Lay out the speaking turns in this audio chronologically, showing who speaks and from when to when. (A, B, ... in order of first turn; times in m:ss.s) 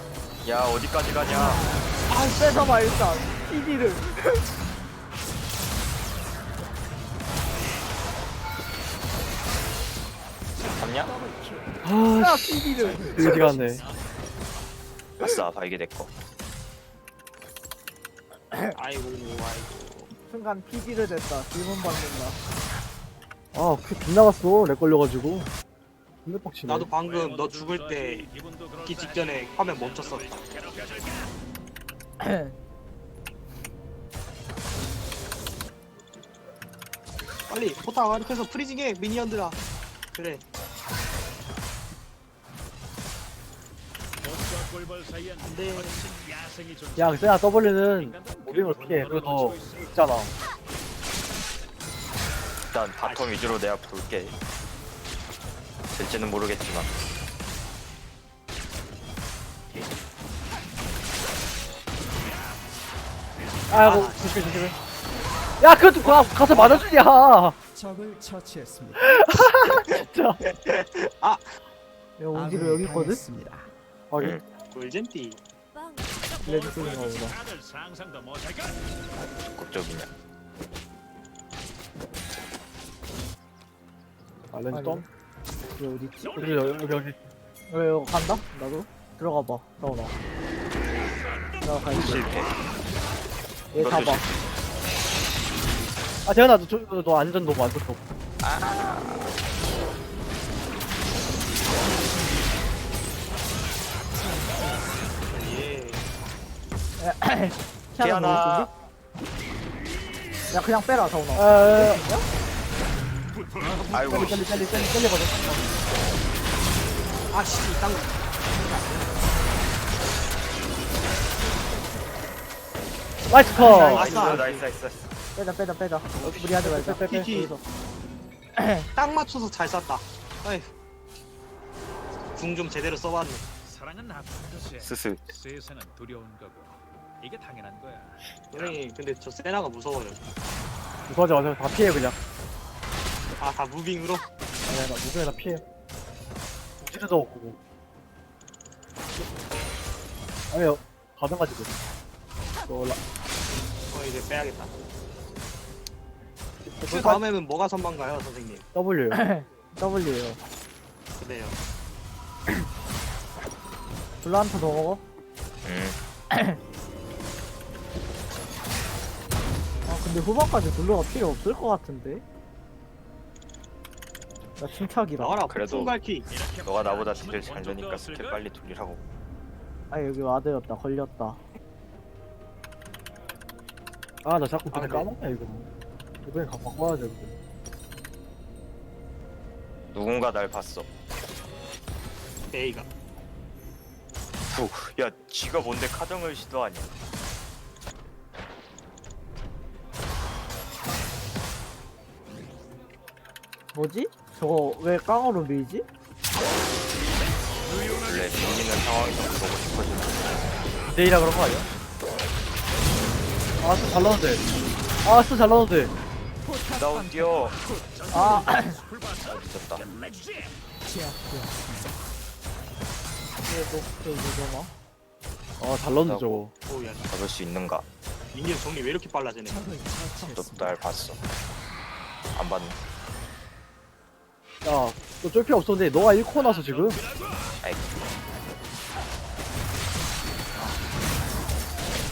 0:00.4-0:01.6 A
0:02.1-0:04.4 B
0:10.7-0:11.1 A
0:11.0-0:11.9 C
0:11.8-0:13.8 D
0:12.2-0:13.6 B
0:12.8-0:13.8 C
0:13.8-0:14.2 E
0:15.2-0:16.1 A
0:18.7-0:20.1 F
0:20.3-0:22.4 B
0:23.5-0:25.5 D
0:26.2-0:26.9 D
0:26.6-0:28.2 F
0:27.0-0:31.3 E
0:28.8-0:30.4 F
0:32.2-0:32.5 B
0:37.5-0:39.6 F
0:40.1-0:40.4 F
0:44.2-0:50.0 E
0:45.4-0:46.1 F
0:47.0-0:50.3 D
0:52.7-0:54.3 A
0:53.0-0:53.5 F
0:55.9-0:56.9 A
1:03.7-1:04.8 D
1:03.7-1:04.6 F
1:05.6-1:07.6 D
1:06.0-1:07.0 F
1:07.7-1:09.0 C
1:09.0-1:10.4 D
1:10.4-1:11.4 F
1:12.2-1:13.2 B
1:12.3-1:13.7 C
1:14.1-1:14.4 D
1:14.7-1:15.4 F
1:16.1-1:18.8 E
1:16.4-1:17.4 B
1:19.5-1:20.1 A
1:24.5-1:25.0 D
1:24.7-1:25.0 B
1:25.8-1:26.6 B
1:26.2-1:27.0 E
1:26.4-1:27.2 D
1:27.7-1:30.2 B
1:31.6-1:32.3 B
1:31.9-1:32.6 A
1:33.7-1:34.2 B
1:33.8-1:34.3 A
1:36.2-1:38.0 D
1:38.4-1:39.3 A
1:42.0-1:42.4 C
1:44.1-1:45.1 C
1:45.3-1:46.0 F
1:47.0-1:48.7 B
1:48.0-1:48.7 A
1:50.5-1:52.2 B
1:51.4-1:52.2 D
1:53.3-1:54.4 E
1:53.9-1:54.9 A
1:54.0-1:55.6 D
1:57.3-1:59.0 F
2:03.3-2:04.4 D
2:03.5-2:04.6 F
2:03.8-2:05.0 A
2:05.4-2:07.6 B
2:06.5-2:07.5 D
2:07.0-2:07.5 F
2:08.5-2:08.9 B
2:09.0-2:10.7 F
2:12.3-2:13.4 F
2:13.6-2:18.8 E
2:14.8-2:15.3 A
2:18.5-2:20.2 F
2:21.1-2:22.2 D
2:23.4-2:24.3 F
2:24.7-2:25.6 D
2:26.8-2:27.6 D
2:30.5-2:31.8 D
2:32.7-2:33.0 D
2:33.9-2:34.7 F
2:36.8-2:37.2 D
2:36.9-2:38.7 F
2:38.7-2:39.2 D
2:39.1-2:40.4 B
2:41.2-2:41.6 F
2:44.2-2:45.0 B
2:45.6-2:46.0 A
2:46.3-2:46.6 B
2:49.8-2:52.2 B
2:54.6-2:55.5 B
2:55.2-2:56.3 F
2:55.5-2:56.0 A
2:56.3-2:58.4 E
2:56.6-2:59.0 A
2:59.9-3:01.4 B
3:04.2-3:05.7 D
3:04.7-3:05.1 F
3:06.2-3:07.3 D
3:09.9-3:10.9 A
3:12.5-3:12.9 F
3:14.5-3:16.9 A
3:23.7-3:25.8 B
3:27.6-3:28.7 E
3:28.0-3:30.4 A
3:30.8-3:31.7 D
3:33.6-3:34.4 D
3:35.0-3:35.9 D
3:36.4-3:37.6 C
3:36.8-3:37.5 A
3:37.3-3:40.6 E
3:38.1-3:38.8 B
3:38.1-3:38.7 C
3:39.2-3:39.8 A
3:40.8-3:42.1 C
3:43.4-3:44.7 B
3:45.6-3:46.5 D
3:46.0-3:46.4 A
3:46.6-3:47.2 F
3:47.1-3:47.8 A
3:48.3-3:49.7 F
3:49.4-3:50.8 C
3:50.2-3:51.2 A
3:52.3-3:52.8 A
3:54.6-3:57.0 D
3:56.2-3:57.6 E
3:57.6-3:57.9 A